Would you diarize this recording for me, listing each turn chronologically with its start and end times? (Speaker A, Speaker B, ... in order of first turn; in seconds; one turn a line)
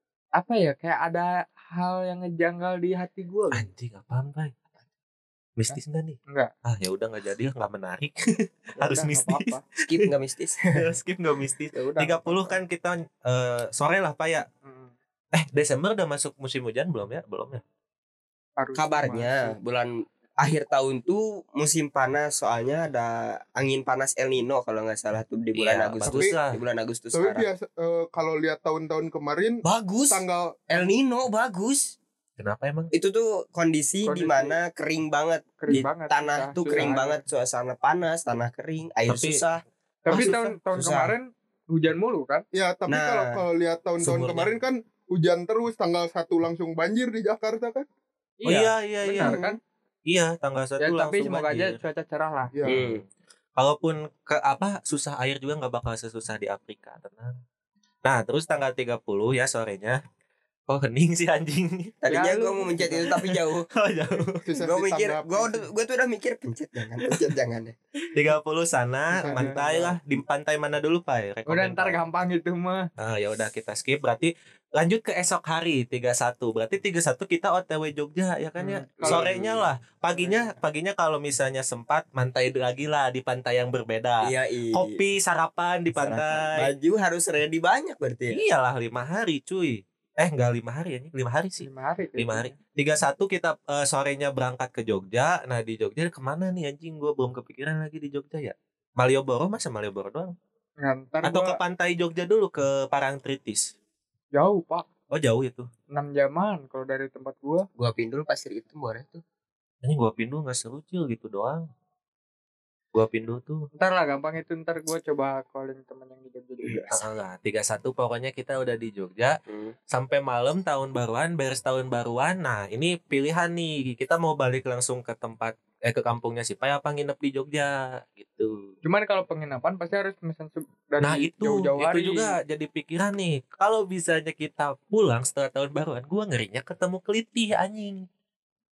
Speaker A: 0.3-3.7
Speaker B: 3.5-4.5
Speaker B: 5.6-10.1
Speaker A: 8.8-9.6
Speaker C: 9.9-10.9
Speaker B: 10.7-14.5
Speaker A: 11.7-12.6
Speaker A: 14.6-14.9
Speaker B: 15.3-17.6
Speaker A: 18.6-19.5
Speaker C: 18.8-27.5
Speaker B: 25.5-26.6
Speaker D: 26.1-26.4
Speaker D: 27.1-30.8
Speaker C: 29.6-31.9
Speaker B: 32.4-32.9
Speaker C: 32.9-41.1
Speaker A: 34.0-34.5
Speaker A: 35.6-37.2
Speaker B: 39.1-39.4
Speaker A: 40.0-42.4
Speaker B: 40.1-40.5
Speaker D: 42.5-47.9
Speaker C: 42.9-43.4
Speaker B: 44.0-44.5
Speaker A: 48.4-49.6
Speaker B: 48.5-49.4
Speaker B: 50.1-51.8
Speaker A: 50.8-52.5
Speaker D: 52.5-52.9
Speaker C: 52.7-53.0
Speaker B: 52.7-53.0
Speaker B: 53.6-57.4
Speaker B: 58.0-60.0
Speaker B: 60.7-62.0
Speaker C: 62.0-63.7
Speaker A: 62.1-63.1
Speaker B: 63.1-64.4
Speaker D: 64.4-65.6
Speaker C: 64.6-67.8
Speaker B: 68.1-72.0
Speaker A: 69.2-69.8
Speaker A: 71.5-72.9
Speaker B: 73.0-86.7
Speaker A: 78.6-79.2
Speaker C: 79.0-80.4
Speaker C: 84.2-85.0
Speaker C: 86.0-88.4
Speaker B: 88.3-100.3
Speaker A: 91.6-92.5
Speaker A: 100.8-101.6
Speaker B: 101.2-103.7
Speaker A: 104.3-104.8
Speaker B: 105.1-105.7
Speaker A: 105.9-107.7
Speaker C: 107.8-109.2
Speaker B: 109.8-111.7
Speaker B: 112.9-113.7
Speaker A: 113.8-116.9
Speaker C: 116.6-117.0
Speaker B: 116.9-119.4
Speaker C: 119.5-119.7
Speaker B: 119.9-128.7
Speaker A: 128.8-132.3
Speaker B: 131.0-138.1